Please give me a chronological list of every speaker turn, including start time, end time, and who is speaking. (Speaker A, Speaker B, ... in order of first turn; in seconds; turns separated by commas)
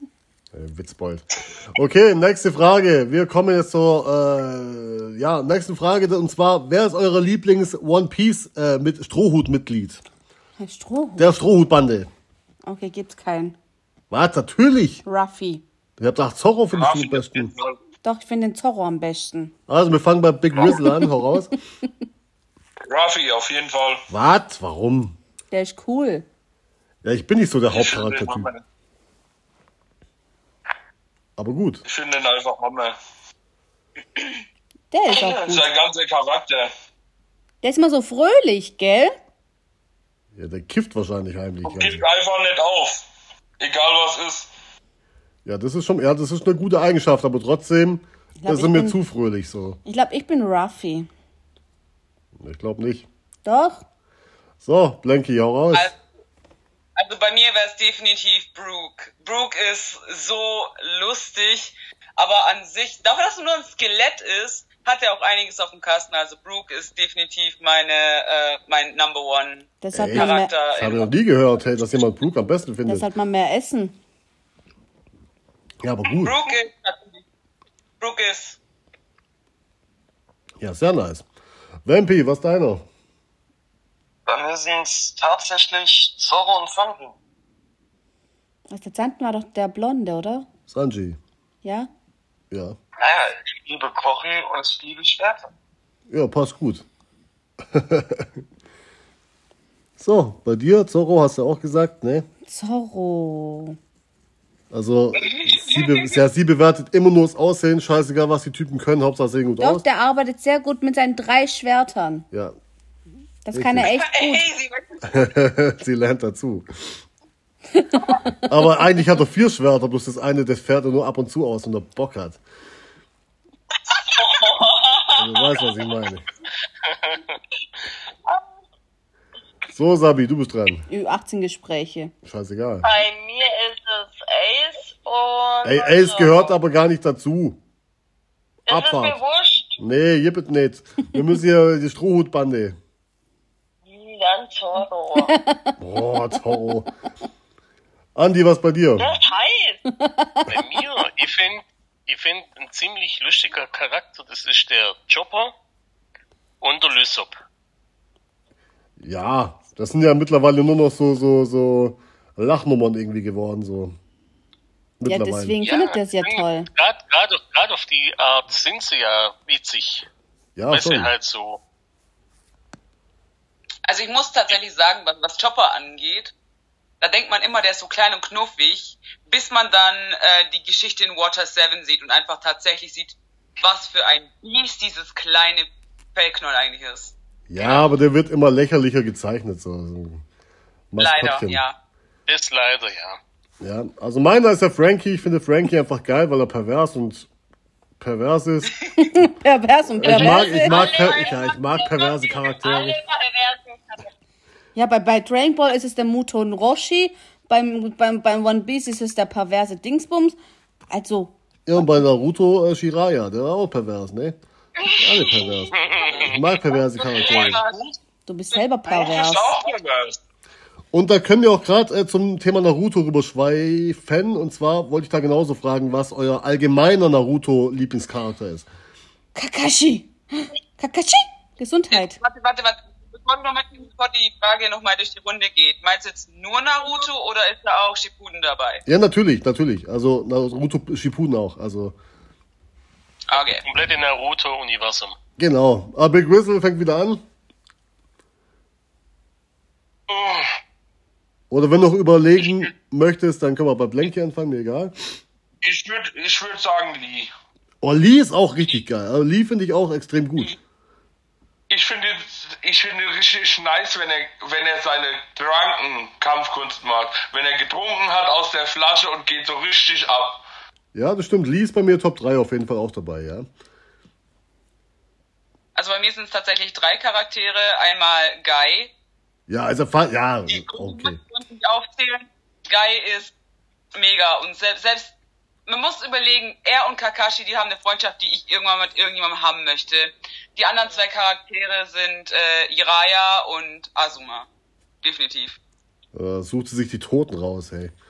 Speaker A: 0.5-10.0, Speaker B: 10.6-11.3, Speaker A: 11.2-12.1, Speaker B: 12.7-13.6, Speaker A: 14.1-15.0, Speaker B: 15.1-15.6, Speaker A: 16.0-17.5, Speaker C: 16.7-17.8, Speaker B: 18.0-19.5, Speaker A: 19.7-21.5, Speaker B: 20.7-21.1, Speaker C: 22.9-24.1, Speaker A: 24.1-25.2, Speaker B: 25.5-26.3, Speaker A: 27.0-28.5, Speaker C: 27.7-28.6, Speaker A: 31.4-31.8, Speaker C: 31.9-33.0, Speaker B: 34.9-35.7, Speaker C: 35.1-36.7, Speaker B: 37.6-39.2, Speaker A: 40.4-42.0, Speaker C: 41.6-43.1, Speaker C: 43.6-44.5, Speaker A: 45.5-49.8, Speaker B: 48.4-49.0, Speaker B: 49.9-51.1, Speaker A: 52.4-53.1, Speaker B: 53.5-53.8, Speaker A: 54.6-55.9, Speaker D: 57.0-71.1, Speaker B: 69.8-70.5, Speaker A: 69.9-73.1, Speaker B: 72.9-74.0, Speaker A: 75.8-76.4, Speaker D: 76.2-77.2, Speaker D: 78.0-78.6, Speaker A: 80.6-81.3, Speaker A: 81.8-82.8, Speaker E: 84.3-87.2, Speaker B: 88.7-90.5, Speaker A: 90.7-91.2, Speaker B: 91.6-91.9, Speaker A: 92.5-92.8, Speaker E: 93.0-95.5, Speaker A: 96.1-96.9, Speaker A: 97.7-98.3, Speaker A: 100.0-102.3, Speaker B: 102.5-103.8, Speaker A: 104.7-109.8, Speaker D: 105.2-106.2, Speaker B: 109.6-112.3, Speaker A: 112.3-112.6, Speaker B: 113.5-114.5, Speaker A: 113.5-113.9, Speaker D: 113.9-115.3, Speaker A: 115.1-117.0, Speaker B: 117.7-118.3, Speaker A: 118.5-122.4, Speaker F: 124.1-125.7, Speaker A: 125.2-126.2, Speaker G: 126.9-127.4, Speaker A: 129.7-130.9, Speaker B: 130.9-132.1, Speaker A: 132.2-132.9, Speaker F: 132.8-136.6, Speaker A: 135.6-137.6, Speaker F: 138.7-139.8, Speaker A: 138.7-139.2, Speaker A: 139.8-142.8, Speaker F: 143.9-145.3, Speaker B: 145.2-146.8, Speaker A: 145.8-146.9, Speaker A: 148.2-149.1, Speaker F: 149.0-149.8, Speaker B: 149.9-150.7, Speaker G: 150.5-155.5, Speaker G: 156.6-157.4, Speaker A: 159.0-164.0, Speaker A: 165.0-165.6, Speaker B: 165.1-166.7, Speaker G: 165.6-170.1, Speaker A: 170.6-171.1, Speaker G: 170.7-171.6, Speaker D: 173.8-176.3, Speaker D: 177.0-187.8, Speaker A: 187.5-190.2, Speaker A: 190.9-191.6, Speaker D: 191.0-191.8, Speaker G: 192.3-193.2, Speaker A: 193.6-197.3, Speaker A: 198.0-198.8, Speaker B: 199.0-201.0, Speaker A: 200.0-203.0, Speaker F: 200.0-204.1, Speaker B: 204.8-210.4, Speaker B: 210.9-211.9, Speaker A: 211.7-214.4, Speaker F: 214.8-215.7, Speaker A: 215.0-217.6, Speaker G: 215.7-216.6, Speaker C: 217.0-218.0, Speaker B: 218.3-219.6, Speaker C: 218.9-220.2, Speaker A: 220.9-228.7, Speaker B: 229.3-232.2, Speaker D: 231.9-238.8, Speaker A: 238.9-241.9, Speaker D: 243.3-243.6, Speaker G: 243.3-245.2, Speaker A: 245.4-247.2, Speaker G: 250.1-250.4, Speaker A: 251.5-254.9, Speaker C: 255.6-257.3, Speaker A: 257.8-260.6, Speaker C: 261.7-270.4, Speaker A: 270.9-273.5, Speaker D: 275.8-278.9, Speaker A: 279.5-281.2, Speaker D: 280.5-283.3, Speaker D: 283.9-285.1, Speaker D: 285.7-294.5, Speaker D: 295.0-295.6, Speaker A: 296.1-297.9